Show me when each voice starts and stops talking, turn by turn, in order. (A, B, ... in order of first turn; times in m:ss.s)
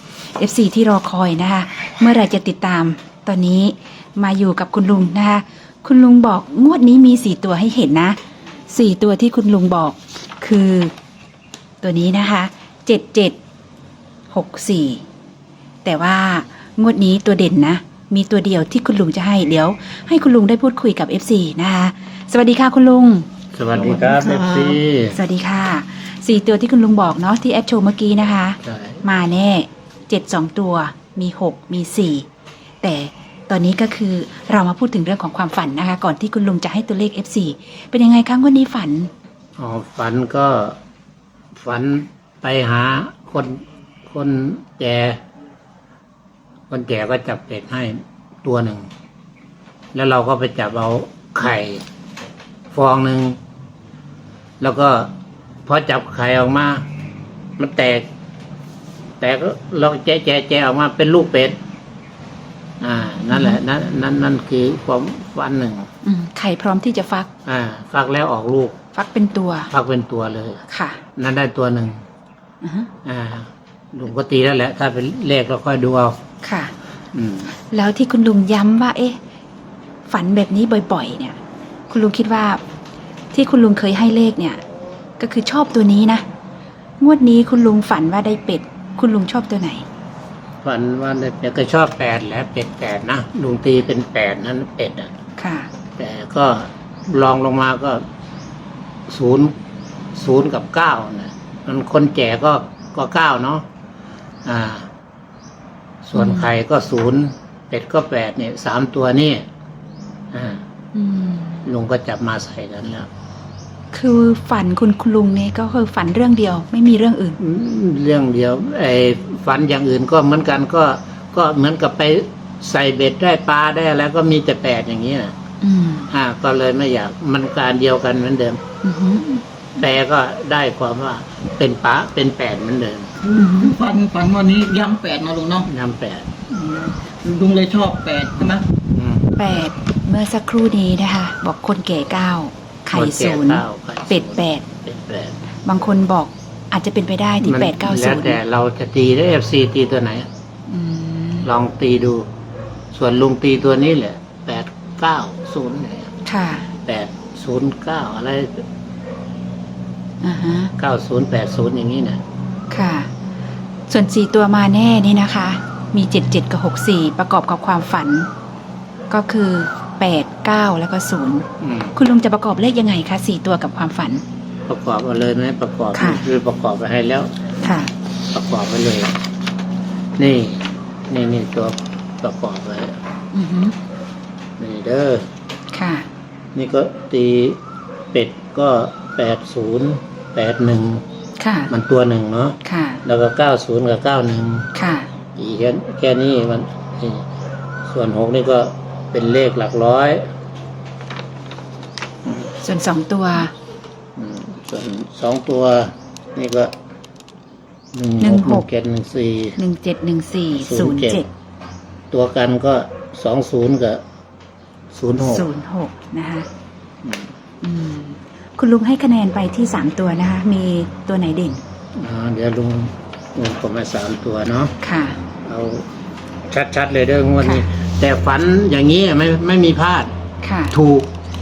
0:00.4-0:08.2 A
0:08.7-0:10.9 A
0:11.8-0:13.4 A
0:14.3-0:15.0 A
0:15.8-0:23.3 A
0:23.5-0:25.2 B
0:23.8-0:24.8 C
0:25.1-0:32.3 A
0:28.6-0:29.0 B
0:32.8-0:39.1 A
0:39.6-0:40.8 B
0:41.5-0:45.2 B
0:46.7-0:48.9 B
0:49.9-0:51.8 B
0:52.7-0:53.4 B
0:54.6-0:55.1 B
0:55.7-0:56.8 B
0:57.6-0:58.1 B
0:59.2-1:01.6 B
1:02.8-1:05.9 B
1:03.3-1:03.6 A
1:06.0-1:07.3 A
1:07.4-1:08.8 B
1:08.9-1:09.7 A
1:09.7-1:10.6 B
1:10.7-1:11.0 A
1:11.2-1:12.0 B
1:12.6-1:12.9 A
1:13.0-1:16.2 B
1:16.4-1:16.7 A
1:17.1-1:17.5 B
1:17.6-1:19.2 A
1:20.1-1:21.4 A
1:21.9-1:22.6 A
1:23.3-1:24.6 A
1:25.2-1:26.2 A
1:27.0-1:29.8 A
1:30.6-1:35.1 B
1:35.4-1:35.7 A
1:36.0-1:38.0 B
1:39.1-1:39.5 B
1:40.1-1:43.7 B
1:44.4-1:44.9 B
1:46.0-1:49.5 B
1:46.2-1:46.5 A
1:50.3-1:50.6 B
1:50.9-1:51.7 A
1:51.6-1:53.1 B
1:53.9-1:57.4 A
1:57.4-2:05.3 B
2:05.6-2:06.1 A
2:06.1-2:08.6 B
2:08.8-2:09.4 A
2:09.8-2:13.1 B
2:13.2-2:15.7 C
2:13.3-2:13.8 A
2:15.7-2:16.3 B
2:16.5-2:18.7 C
2:18.9-2:19.3 B
2:19.4-2:24.7 A
2:22.9-2:25.4 B
2:25.6-2:28.4 A
2:27.4-2:30.3 B
2:30.7-2:31.5 A
2:31.4-2:32.3 B
2:32.9-2:36.1 B
2:36.2-2:36.7 A
2:36.8-2:38.6 B
2:40.2-2:40.7 A
2:40.8-2:42.2 B
2:42.7-2:43.1 A
2:43.9-2:48.3 A
2:49.1-2:54.2 A
2:51.6-2:51.9 B
2:54.7-2:57.5 B
2:55.9-2:56.3 A
2:57.6-2:57.9 A
2:58.3-2:59.1 B
3:00.2-3:03.0 B
3:03.3-3:03.8 A
3:04.6-3:05.2 B
3:05.7-3:06.1 A
3:06.5-3:07.6 B
3:08.1-3:11.0 B
3:11.4-3:11.7 A
3:11.7-3:14.7 B
3:12.6-3:13.0 A
3:14.7-3:15.1 A
3:15.4-3:17.2 B
3:17.8-3:20.2 B
3:22.6-3:23.5 A
3:24.2-3:26.7 B
3:27.9-3:29.6 B
3:28.2-3:28.6 A
3:29.6-3:31.3 A
3:30.5-3:31.2 B
3:32.1-3:34.0 B
3:34.9-3:35.5 B
3:35.2-3:36.5 A
3:37.0-3:37.3 B
3:37.6-3:41.6 A
3:42.0-3:44.7 B
3:44.8-3:45.2 A
3:45.4-3:45.8 B
3:46.5-3:50.1 B
3:50.4-3:50.8 A
3:50.7-3:51.1 B